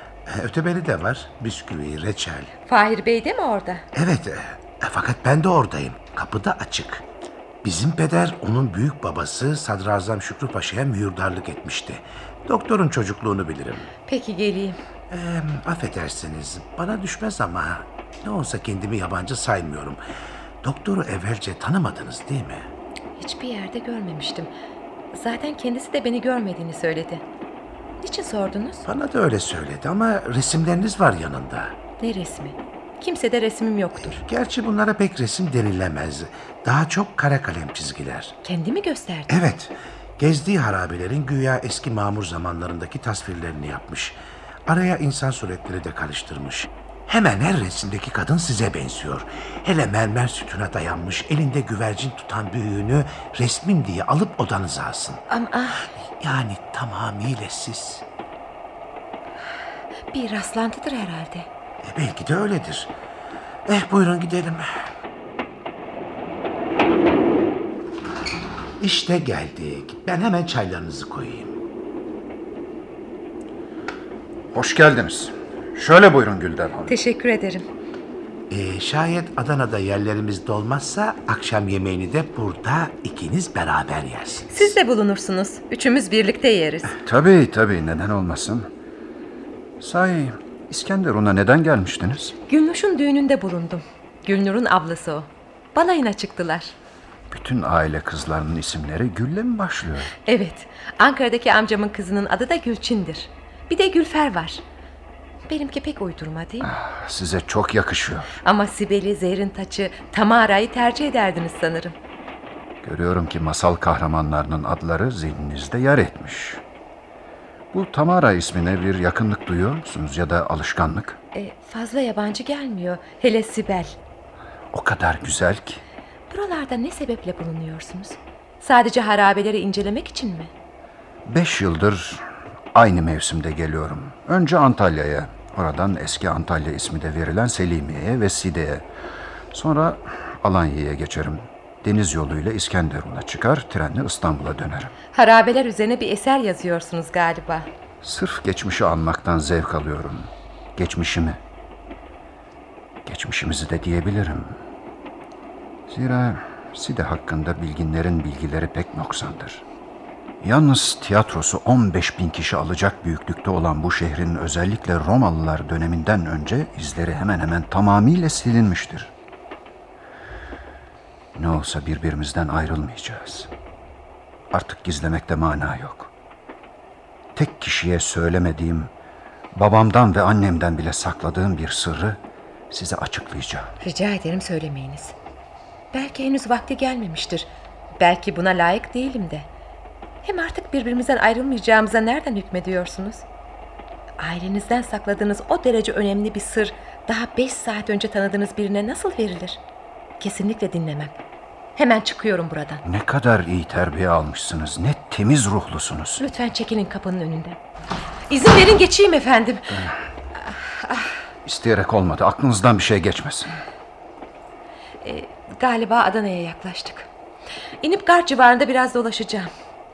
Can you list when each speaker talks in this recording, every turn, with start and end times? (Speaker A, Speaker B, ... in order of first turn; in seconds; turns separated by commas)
Speaker A: 0.3-2.5, Speaker B: 2.7-3.9, Speaker A: 3.9-7.0, Speaker A: 7.6-13.9, Speaker B: 14.1-14.8, Speaker A: 15.1-20.0, Speaker A: 20.6-22.7, Speaker B: 23.2-24.5, Speaker B: 25.1-27.2, Speaker B: 28.0-28.9, Speaker A: 28.9-31.8, Speaker B: 32.0-34.2, Speaker A: 34.1-38.4, Speaker B: 38.4-39.3, Speaker A: 39.3-55.2, Speaker B: 55.3-55.8, Speaker A: 56.0-58.0, Speaker B: 60.1-61.5, Speaker A: 61.8-62.9, Speaker A: 63.7-64.7, Speaker A: 68.8-71.6, Speaker C: 74.5-77.0, Speaker B: 76.9-77.7, Speaker A: 78.5-84.8, Speaker B: 84.5-86.9, Speaker C: 87.0-88.7, Speaker C: 89.8-92.4, Speaker B: 92.5-96.8, Speaker C: 97.3-100.2, Speaker B: 100.2-104.6, Speaker B: 105.5-106.7, Speaker C: 106.6-108.3, Speaker B: 108.4-112.0, Speaker C: 112.8-116.6, Speaker C: 117.7-121.2, Speaker B: 121.3-124.0, Speaker C: 124.7-125.8, Speaker B: 126.3-130.5, Speaker C: 131.2-138.9, Speaker C: 139.5-144.9, Speaker B: 145.1-147.7, Speaker C: 148.0-151.4, Speaker C: 153.1-154.6, Speaker C: 155.9-159.7, Speaker C: 160.4-169.1, Speaker C: 171.3-173.5, Speaker C: 174.5-176.1, Speaker C: 177.3-178.9, Speaker C: 179.5-183.7, Speaker B: 183.8-185.2, Speaker B: 185.9-189.5, Speaker B: 190.2-193.2, Speaker B: 194.2-199.6, Speaker B: 200.2-201.1, Speaker B: 201.8-202.8, Speaker C: 202.8-206.2, Speaker B: 206.2-207.6, Speaker B: 208.3-209.8, Speaker C: 209.7-210.0, Speaker C: 211.4-213.6, Speaker B: 215.0-217.1, Speaker B: 217.8-219.5